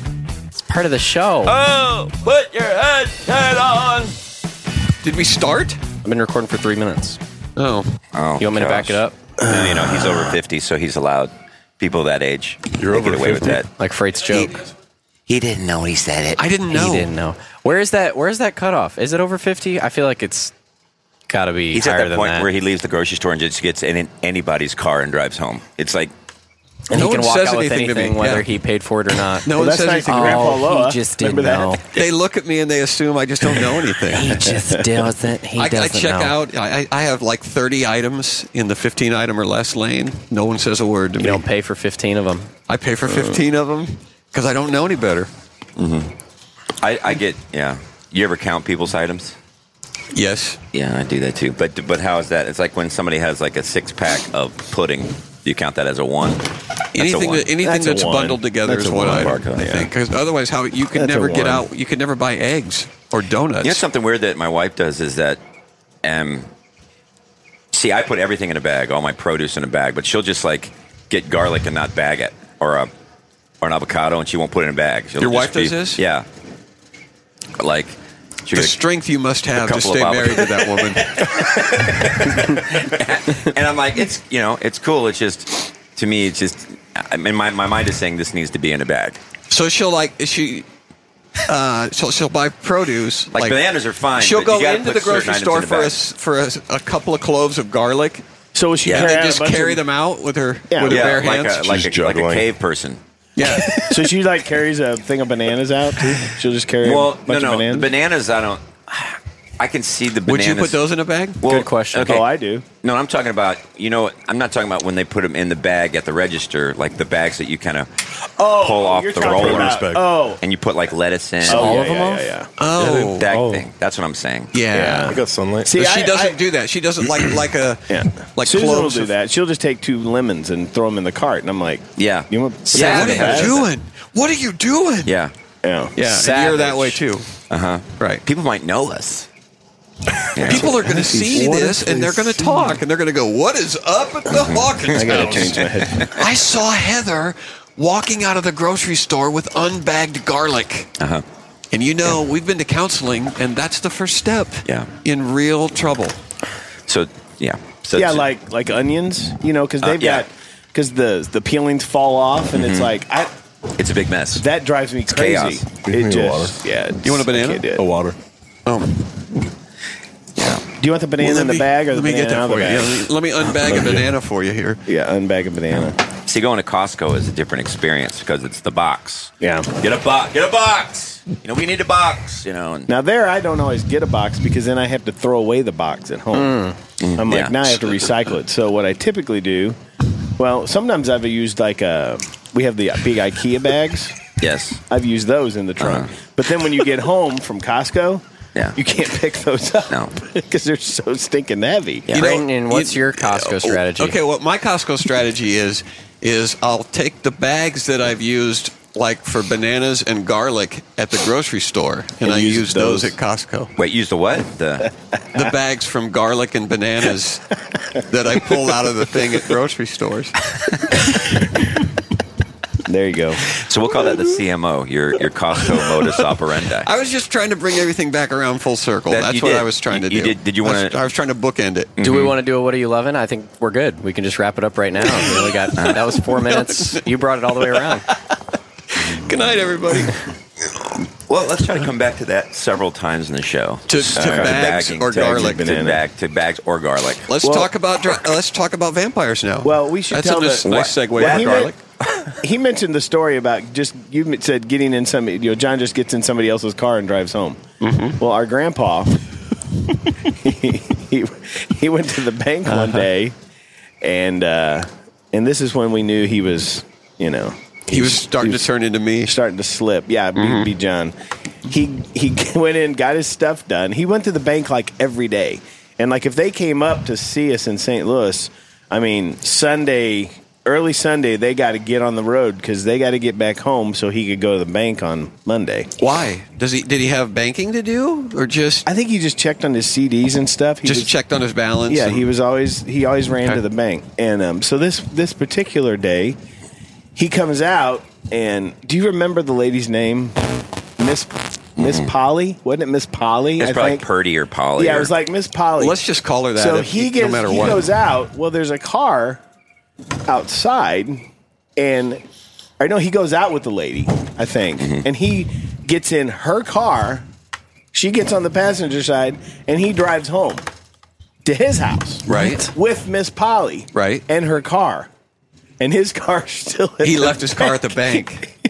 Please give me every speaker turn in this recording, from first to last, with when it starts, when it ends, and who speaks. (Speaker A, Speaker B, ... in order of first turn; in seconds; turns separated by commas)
Speaker A: 0.7-1.6, Speaker B: 1.5-4.2, Speaker C: 5.0-5.8, Speaker A: 6.0-7.2, Speaker C: 7.6-7.9, Speaker B: 8.1-13.7, Speaker A: 8.4-9.2, Speaker D: 9.4-10.3, Speaker E: 12.8-13.6, Speaker A: 13.8-14.5, Speaker B: 15.3-16.4, Speaker C: 16.4-17.1, Speaker A: 16.7-20.5, Speaker A: 21.3-22.5, Speaker B: 21.7-26.1, Speaker A: 26.9-29.5, Speaker C: 26.9-28.5, Speaker C: 29.4-30.6, Speaker D: 29.5-31.8, Speaker A: 30.1-31.8, Speaker C: 31.9-34.5, Speaker A: 34.1-36.4, Speaker C: 35.6-41.4, Speaker A: 41.2-42.5, Speaker C: 42.7-45.3, Speaker D: 43.1-43.4, Speaker B: 45.8-46.1, Speaker B: 46.8-49.4, Speaker C: 50.1-50.6, Speaker B: 50.7-57.5, Speaker C: 56.9-63.8, Speaker D: 57.6-59.9, Speaker B: 59.0-59.7, Speaker D: 61.0-61.7, Speaker B: 63.6-65.4, Speaker B: 66.0-66.5, Speaker B: 67.7-72.9, Speaker B: 73.6-76.3, Speaker C: 75.2-76.0, Speaker B: 77.6-78.8, Speaker C: 78.5-81.2, Speaker B: 79.5-89.2, Speaker C: 89.5-90.7, Speaker C: 91.5-98.2, Speaker B: 93.3-96.0, Speaker D: 98.5-99.8, Speaker B: 98.8-99.1, Speaker C: 98.8-101.7, Speaker D: 100.7-101.2, Speaker B: 100.9-103.0, Speaker E: 101.6-102.5, Speaker C: 103.4-104.0, Speaker D: 103.8-107.9, Speaker B: 106.8-110.8, Speaker C: 110.3-111.4, Speaker B: 111.4-112.3, Speaker A: 111.4-112.2, Speaker D: 112.0-112.7, Speaker B: 112.8-117.9, Speaker D: 118.4-120.4, Speaker B: 118.5-121.8, Speaker E: 119.2-120.1, Speaker D: 121.4-122.5, Speaker A: 121.5-122.3, Speaker C: 122.6-123.3, Speaker B: 122.8-124.5, Speaker E: 123.2-123.7, Speaker C: 124.5-125.1, Speaker D: 124.7-126.4, Speaker E: 125.1-125.8, Speaker C: 125.7-129.1, Speaker D: 127.9-133.7, Speaker B: 132.0-133.7, Speaker C: 132.7-135.1, Speaker B: 135.1-135.3, Speaker D: 135.6-135.9, Speaker C: 136.0-137.3, Speaker A: 136.0-137.0, Speaker B: 137.5-139.3, Speaker B: 140.3-140.9, Speaker C: 140.4-150.9, Speaker D: 140.5-142.6, Speaker B: 144.3-146.2, Speaker D: 144.9-146.1, Speaker B: 151.0-151.2, Speaker C: 151.7-156.2, Speaker B: 156.9-158.3, Speaker D: 157.9-163.3, Speaker B: 159.8-160.2, Speaker B: 162.5-162.9, Speaker B: 163.8-164.4, Speaker D: 164.3-167.8, Speaker B: 165.1-165.7, Speaker E: 165.9-166.6, Speaker C: 167.0-167.7, Speaker E: 167.8-168.2, Speaker C: 168.7-169.2, Speaker B: 170.4-170.6, Speaker D: 170.7-173.1, Speaker C: 171.2-174.8, Speaker D: 174.9-176.0, Speaker B: 175.7-182.9, Speaker D: 179.4-179.7, Speaker D: 182.9-189.8, Speaker A: 186.4-186.8, Speaker B: 187.0-188.2, Speaker D: 190.4-194.2, Speaker B: 194.4-194.8, Speaker D: 194.9-198.2, Speaker B: 195.8-196.1, Speaker D: 198.8-202.1, Speaker B: 202.1-202.4, Speaker A: 202.1-204.2, Speaker C: 202.1-213.7, Speaker D: 212.2-213.2, Speaker B: 213.8-214.9, Speaker C: 215.3-220.4, Speaker D: 222.8-223.5, Speaker B: 223.5-226.9, Speaker C: 226.9-231.9, Speaker B: 229.1-231.0, Speaker B: 232.0-232.4, Speaker A: 232.0-238.1, Speaker B: 235.8-236.1, Speaker C: 235.9-237.0, Speaker C: 238.9-240.2, Speaker B: 241.3-247.3, Speaker C: 243.9-245.7, Speaker D: 244.2-246.0, Speaker C: 247.3-251.8, Speaker D: 247.4-247.8, Speaker D: 249.6-251.8, Speaker B: 250.7-252.3, Speaker D: 252.3-257.6, Speaker C: 257.8-258.2, Speaker D: 258.2-259.2, Speaker D: 260.2-263.4, Speaker C: 262.7-263.1, Speaker D: 264.0-268.7, Speaker C: 267.9-269.4, Speaker D: 269.2-271.1, Speaker C: 270.4-270.7, Speaker D: 271.7-285.9, Speaker C: 286.0-288.9, Speaker D: 288.9-291.1, Speaker C: 290.9-292.3, Speaker D: 291.9-296.4, Speaker D: 297.1-300.4, Speaker D: 301.0-304.1, Speaker B: 301.8-302.1, Speaker B: 303.6-305.1, Speaker D: 304.8-306.0, Speaker C: 305.8-307.9, Speaker D: 306.6-309.4, Speaker D: 310.3-311.2, Speaker D: 311.8-312.2, Speaker D: 312.8-317.3, Speaker B: 314.8-315.0, Speaker D: 317.9-320.6, Speaker D: 321.4-325.1, Speaker C: 322.3-322.7, Speaker A: 322.3-322.6, Speaker C: 323.9-324.2, Speaker D: 325.8-328.2, Speaker C: 327.0-328.5